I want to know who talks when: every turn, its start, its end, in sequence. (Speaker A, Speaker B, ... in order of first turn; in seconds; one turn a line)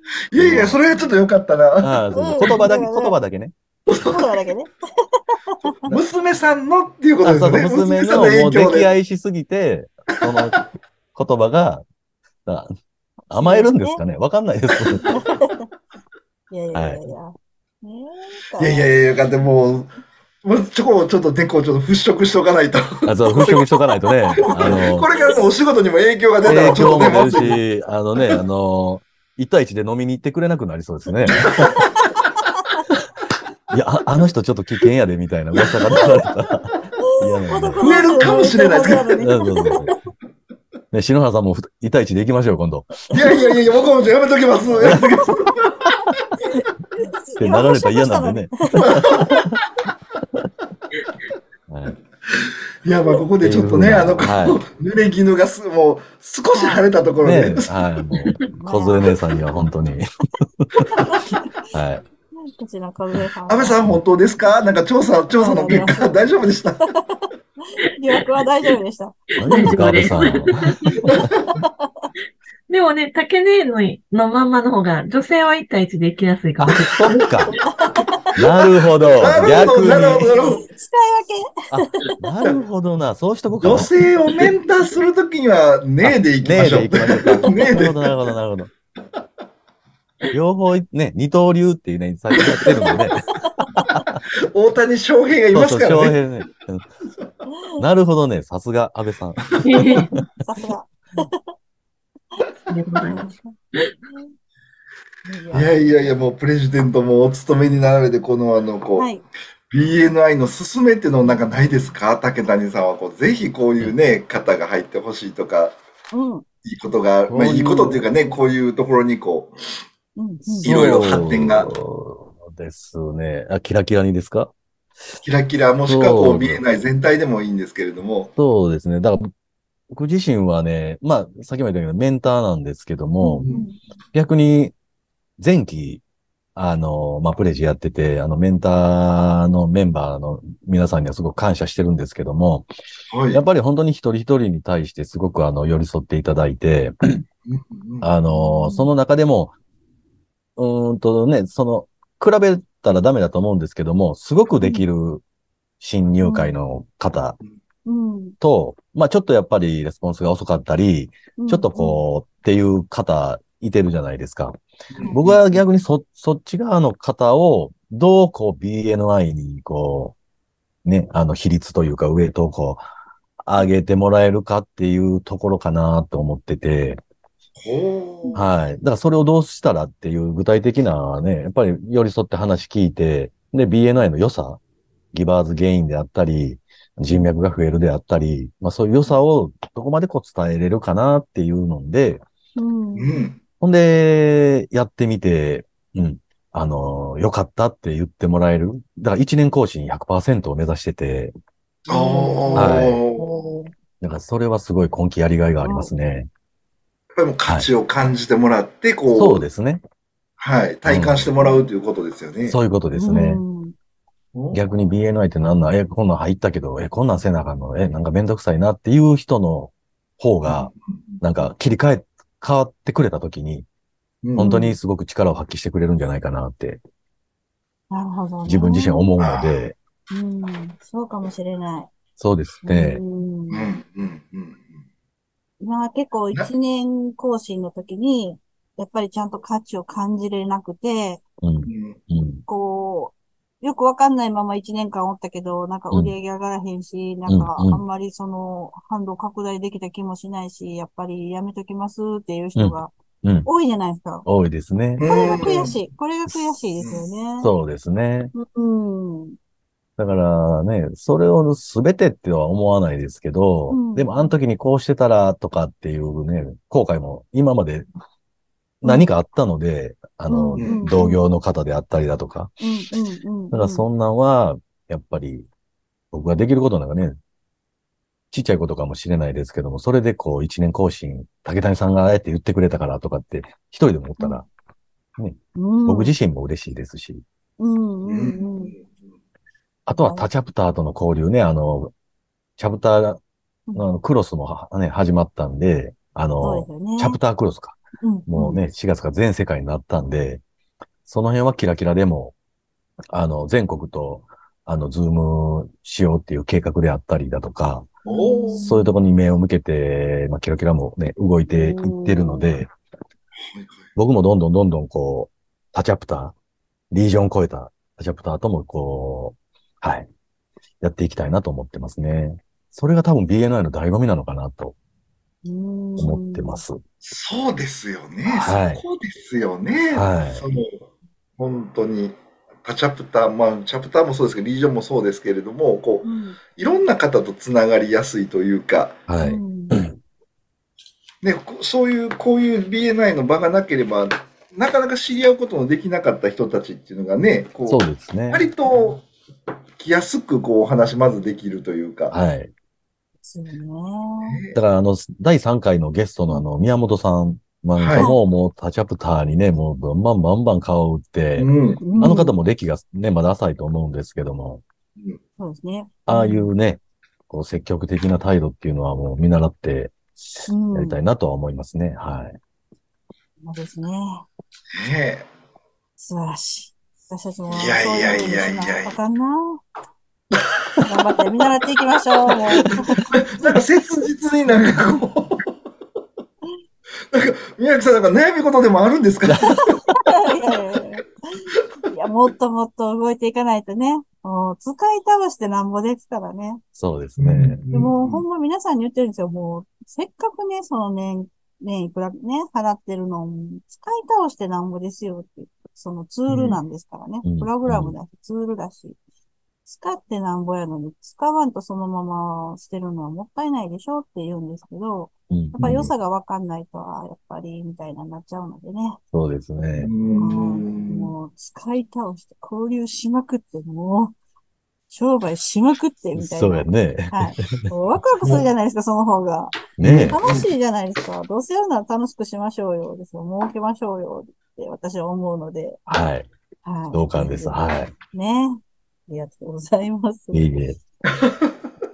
Speaker A: 0.3-2.6
Speaker B: 0.3-0.8
Speaker B: 1.8-3.5
Speaker C: 2.1-3.1
Speaker A: 3.9-4.4
Speaker C: 4.0-5.8
Speaker A: 5.9-8.9
Speaker B: 7.2-10.6
Speaker B: 11.1-11.8
Speaker B: 12.4-12.7
Speaker B: 13.3-15.1
Speaker C: 13.3-14.0
Speaker C: 15.1-15.6
Speaker C: 16.5-18.9
Speaker B: 16.7-17.0
Speaker A: 18.6-19.9
Speaker A: 20.4-23.8
Speaker B: 23.1-25.1
Speaker A: 24.4-27.6
Speaker C: 24.6-25.4
Speaker B: 26.4-31.8
Speaker A: 31.4-31.7
Speaker B: 33.7-38.3
Speaker A: 35.6-36.1
Speaker C: 37.0-39.9
Speaker A: 37.8-39.2
Speaker B: 39.2-39.9
Speaker B: 40.9-43.1
Speaker A: 43.1-46.0
Speaker B: 44.8-45.0
Speaker C: 46.5-49.4
Speaker B: 47.4-49.6
Speaker A: 48.8-49.4
Speaker B: 51.7-52.0
Speaker A: 52.4-57.7
Speaker B: 53.4-54.6
Speaker C: 56.5-56.9
Speaker B: 57.2-61.1
Speaker C: 58.5-59.0
Speaker C: 60.9-61.4
Speaker B: 61.7-62.0
Speaker C: 62.4-63.8
Speaker A: 63.5-66.9
Speaker C: 65.4-66.2
Speaker C: 66.9-69.7
Speaker B: 69.4-71.3
Speaker D: 69.4-71.1
Speaker A: 71.1-71.5
Speaker C: 71.6-72.1
Speaker D: 72.7-77.2
Speaker B: 76.6-77.6
Speaker C: 77.7-78.3
Speaker B: 78.3-80.3
Speaker A: 79.2-80.6
Speaker C: 79.5-82.0
Speaker B: 81.7-83.9
Speaker A: 83.6-88.2
Speaker B: 86.0-88.7
Speaker B: 90.3-94.2
Speaker C: 93.6-93.8
Speaker A: 94.5-96.2
Speaker B: 95.5-96.8
Speaker B: 97.8-100.0
Speaker D: 99.6-100.1
Speaker C: 100.4-101.4
Speaker D: 102.7-103.9
Speaker C: 103.0-103.5
Speaker C: 105.2-106.1
Speaker A: 105.5-109.1
Speaker C: 109.0-109.2
Speaker A: 109.7-115.8
Speaker C: 116.1-116.4
Speaker A: 116.6-119.5
Speaker B: 117.3-118.0
Speaker C: 120.2-120.8
Speaker A: 120.5-121.7
Speaker B: 120.6-124.5
Speaker A: 125.2-128.3
Speaker B: 125.8-126.6
Speaker B: 128.4-129.3
Speaker B: 129.9-133.5
Speaker C: 133.2-133.8
Speaker A: 133.4-133.7
Speaker B: 134.1-134.7
Speaker B: 135.4-136.0
Speaker B: 136.5-142.7
Speaker A: 143.1-143.4
Speaker B: 143.3-146.9
Speaker A: 147.4-148.1
Speaker B: 148.0-149.5
Speaker C: 148.3-148.9
Speaker B: 150.6-155.2
Speaker B: 155.8-157.4
Speaker C: 156.2-156.5
Speaker C: 157.8-158.3
Speaker B: 158.4-170.2
Speaker C: 161.4-162.0
Speaker A: 164.9-165.4
Speaker C: 165.0-165.3
Speaker B: 170.8-172.8
Speaker B: 173.4-177.0
Speaker A: 177.6-178.3
Speaker B: 178.3-184.6
Speaker B: 185.1-192.2
Speaker C: 192.6-193.1
Speaker A: 192.9-193.4
Speaker B: 193.6-201.3
Speaker C: 201.9-203.7
Speaker A: 201.9-203.2
Speaker B: 202.5-203.0
Speaker B: 204.0-206.3
Speaker C: 205.6-205.9
Speaker A: 207.2-209.4
Speaker B: 209.1-209.8
Speaker A: 210.4-212.6
Speaker B: 210.8-211.3
Speaker C: 211.4-211.7
Speaker B: 212.4-213.4
Speaker C: 212.9-213.7
Speaker A: 214.3-214.6
Speaker B: 214.5-223.7
Speaker A: 220.4-221.2
Speaker A: 224.2-224.5
Speaker B: 224.3-226.8
Speaker C: 224.4-224.8
Speaker C: 227.9-229.1
Speaker B: 228.4-229.8
Speaker A: 229.2-229.6
Speaker C: 230.1-231.9
Speaker B: 232.2-233.0
Speaker C: 232.6-233.7
Speaker A: 233.5-234.8
Speaker C: 235.6-241.2
Speaker B: 241.4-242.4
Speaker A: 241.7-242.0
Speaker C: 242.5-252.9
Speaker B: 247.3-247.8
Speaker B: 252.6-253.5
Speaker C: 253.4-254.2
Speaker B: 254.2-255.5
Speaker A: 255.0-255.8
Speaker C: 255.0-257.5
Speaker B: 256.3-256.6
Speaker B: 257.4-258.3
Speaker C: 258.3-259.4
Speaker B: 260.0-267.9
Speaker C: 263.7-264.3
Speaker B: 268.8-272.5
Speaker C: 268.8-269.1
Speaker C: 270.3-271.2
Speaker A: 270.6-270.9
Speaker C: 272.6-273.9
Speaker B: 273.5-275.5
Speaker B: 276.1-277.2
Speaker B: 278.3-284.5
Speaker C: 284.2-284.4
Speaker B: 285.2-287.2
Speaker C: 285.6-286.1
Speaker C: 287.6-288.7
Speaker A: 288.0-288.9
Speaker B: 289.9-291.9
Speaker C: 289.9-290.3
Speaker B: 292.6-293.2
Speaker B: 293.7-300.4
Speaker C: 296.4-297.2
Speaker C: 298.0-298.6
Speaker B: 301.1-302.3
Speaker B: 303.1-307.9
Speaker A: 308.0-308.6
Speaker C: 308.1-309.0
Speaker B: 308.5-312.7
Speaker C: 311.5-312.5
Speaker A: 313.4-313.9
Speaker B: 313.9-316.3
Speaker B: 316.9-320.1
Speaker B: 320.8-324.7
Speaker C: 325.4-326.6
Speaker B: 326.0-326.8
Speaker A: 327.0-330.8
Speaker B: 328.2-328.8
Speaker B: 329.9-330.4
Speaker A: 331.4-339.0
Speaker C: 336.0-336.4
Speaker B: 339.1-340.0
Speaker C: 339.2-339.8
Speaker A: 341.2-349.1
Speaker B: 347.7-348.4
Speaker A: 349.8-352.1
Speaker B: 352.1-352.5
Speaker C: 353.2-354.4
Speaker A: 354.2-354.6
Speaker B: 354.5-364.6
Speaker A: 357.8-358.1
Speaker A: 361.4-362.2
Speaker C: 361.8-362.4
Speaker C: 365.4-366.5
Speaker B: 366.1-372.4
Speaker C: 370.5-371.0
Speaker C: 373.4-374.2
Speaker A: 374.7-375.3
Speaker C: 376.0-379.6
Speaker A: 377.5-378.9
Speaker A: 380.3-380.6
Speaker C: 380.8-383.6
Speaker A: 382.3-385.4
Speaker A: 387.1-389.6
Speaker B: 389.2-389.7
Speaker C: 390.0-391.0
Speaker C: 391.9-396.6
Speaker B: 396.8-397.6
Speaker A: 397.2-398.2
Speaker C: 397.7-409.0
Speaker A: 406.3-406.6
Speaker B: 407.2-407.9
Speaker C: 409.6-419.0
Speaker B: 415.3-415.9
Speaker B: 419.1-419.9
Speaker A: 419.8-421.1
Speaker C: 420.1-424.1
Speaker C: 424.9-435.8
Speaker B: 426.1-427.7
Speaker B: 429.8-430.2
Speaker A: 429.8-430.5
Speaker B: 435.9-436.3
Speaker C: 436.6-440.5
Speaker B: 436.9-437.9
Speaker B: 440.3-440.8